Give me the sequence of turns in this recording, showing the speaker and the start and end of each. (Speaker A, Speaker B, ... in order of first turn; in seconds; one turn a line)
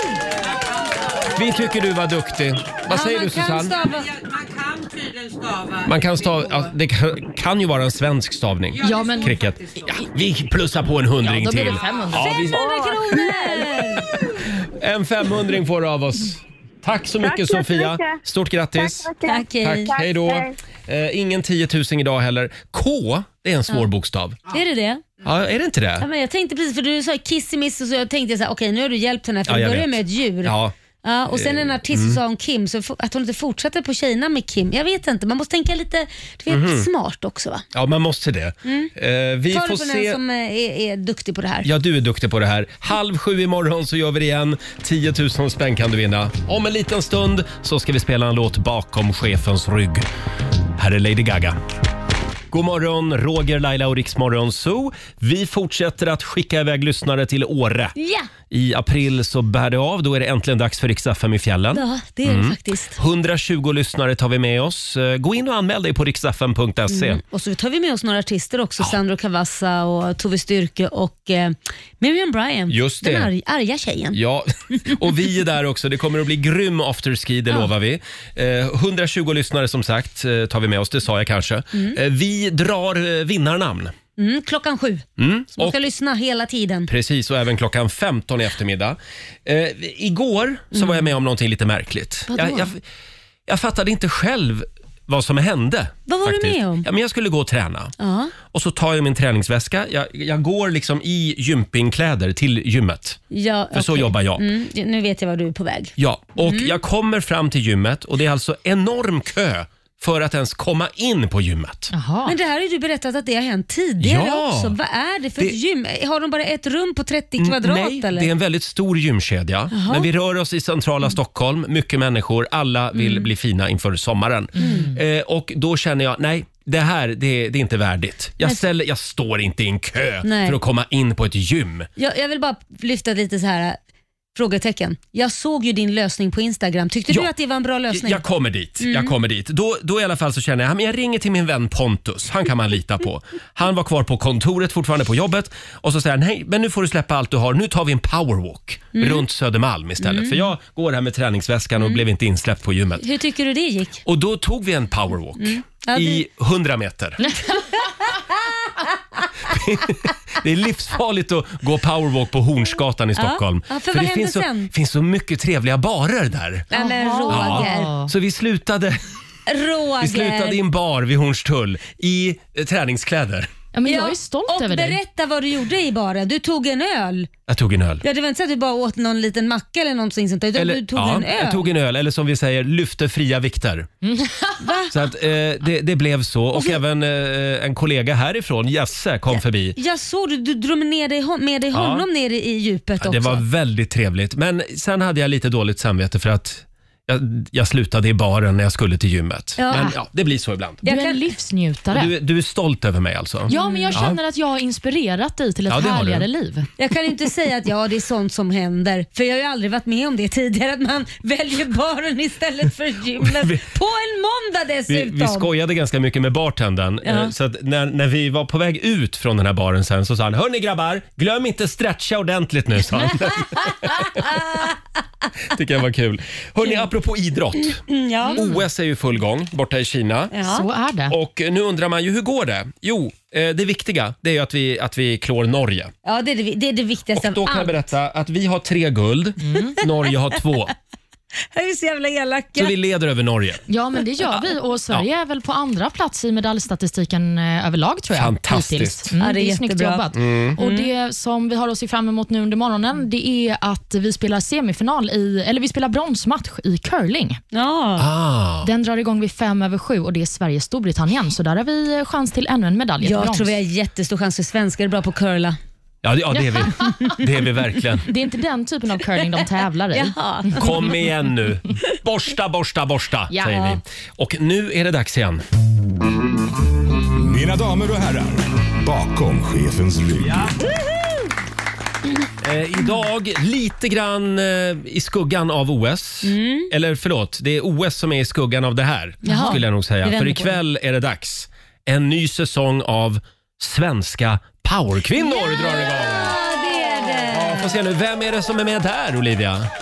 Speaker A: 0.4-1.5
Speaker B: 1.4-3.8
Speaker C: 2.9-4.1
Speaker A: 3.7-6.7
Speaker B: 5.8-12.6
Speaker A: 8.7-10.1
Speaker D: 8.8-9.4
Speaker D: 11.2-12.3
Speaker C: 12.2-14.1
Speaker E: 12.4-13.8
Speaker B: 14.6-19.1
Speaker E: 17.2-18.2
Speaker E: 18.8-20.5
Speaker C: 19.2-19.9
Speaker B: 19.6-24.4
Speaker C: 24.5-25.1
Speaker B: 25.2-26.1
Speaker C: 26.0-37.6
Speaker B: 29.5-30.8
Speaker B: 31.3-32.2
Speaker B: 36.5-36.9
Speaker B: 37.7-40.2
Speaker C: 38.6-38.9
Speaker C: 39.5-41.7
Speaker B: 41.6-50.1
Speaker B: 50.8-51.6
Speaker B: 52.5-58.0
Speaker C: 58.0-58.3
Speaker B: 58.5-67.2
Speaker C: 61.7-63.0
Speaker C: 66.9-74.2
Speaker B: 72.7-73.3
Speaker B: 74.1-83.9
Speaker C: 84.2-86.9
Speaker B: 85.2-85.8
Speaker B: 86.9-92.8
Speaker C: 90.7-91.1
Speaker C: 92.3-92.7
Speaker B: 93.5-97.9
Speaker C: 96.1-96.9
Speaker C: 98.0-98.3
Speaker B: 98.5-103.2
Speaker C: 103.3-106.8
Speaker B: 103.7-104.5
Speaker B: 106.0-111.9
Speaker D: 111.9-112.4
Speaker C: 112.2-118.3
Speaker B: 114.0-114.8
Speaker B: 117.4-131.9
Speaker C: 119.7-120.1
Speaker C: 123.0-123.3
Speaker C: 124.6-124.9
Speaker D: 124.6-125.0
Speaker C: 130.2-130.6
Speaker C: 132.0-133.8
Speaker C: 134.3-138.2
Speaker B: 137.9-153.1
Speaker C: 138.8-139.1
Speaker C: 148.9-149.2
Speaker C: 150.0-150.4
Speaker C: 153.0-154.0
Speaker B: 154.1-157.2
Speaker C: 155.4-156.2
Speaker C: 157.9-159.3
Speaker B: 159.5-166.7
Speaker C: 163.2-164.7
Speaker C: 166.7-167.9
Speaker D: 166.7-168.1
Speaker B: 167.3-169.0
Speaker C: 169.5-170.6
Speaker B: 170.0-173.5
Speaker D: 173.7-175.0
Speaker C: 173.9-177.3
Speaker B: 177.5-178.0
Speaker C: 178.0-181.7
Speaker B: 180.6-183.9
Speaker D: 184.0-184.6
Speaker C: 184.6-184.9
Speaker B: 184.9-189.8
Speaker C: 186.5-186.8
Speaker C: 189.3-193.4
Speaker B: 191.7-192.1
Speaker B: 193.0-200.8
Speaker C: 199.6-199.9
Speaker C: 200.8-201.2
Speaker D: 200.8-202.1
Speaker B: 201.9-204.2
Speaker D: 203.5-206.7
Speaker C: 203.5-204.0
Speaker B: 205.7-206.3
Speaker C: 206.8-215.5
Speaker B: 213.2-213.7
Speaker B: 214.9-224.4
Speaker C: 217.0-217.3
Speaker C: 223.7-224.7
Speaker B: 225.5-227.8
Speaker C: 227.7-228.4
Speaker D: 228.2-228.6
Speaker B: 228.3-230.3
Speaker C: 230.3-230.7
Speaker D: 230.4-231.2
Speaker B: 231.1-235.9
Speaker C: 236.1-237.8
Speaker B: 237.1-240.7
Speaker D: 239.4-239.8
Speaker C: 241.5-242.8
Speaker B: 242.6-243.6
Speaker D: 243.7-257.4
Speaker B: 244.4-245.1
Speaker B: 248.1-249.1
Speaker C: 249.2-250.1
Speaker B: 250.1-250.6
Speaker C: 250.6-250.9
Speaker C: 257.5-258.1
Speaker B: 258.0-258.7
Speaker D: 258.6-263.6
Speaker C: 263.0-265.6
Speaker B: 266.0-268.1
Speaker D: 266.6-267.1
Speaker C: 266.8-267.1
Speaker D: 268.0-270.7
Speaker C: 269.9-270.9
Speaker B: 270.6-275.4
Speaker F: 277.2-280.5
Speaker B: 280.2-280.6
Speaker B: 282.4-299.7
Speaker C: 286.2-286.7
Speaker C: 289.2-290.6
Speaker C: 295.2-297.8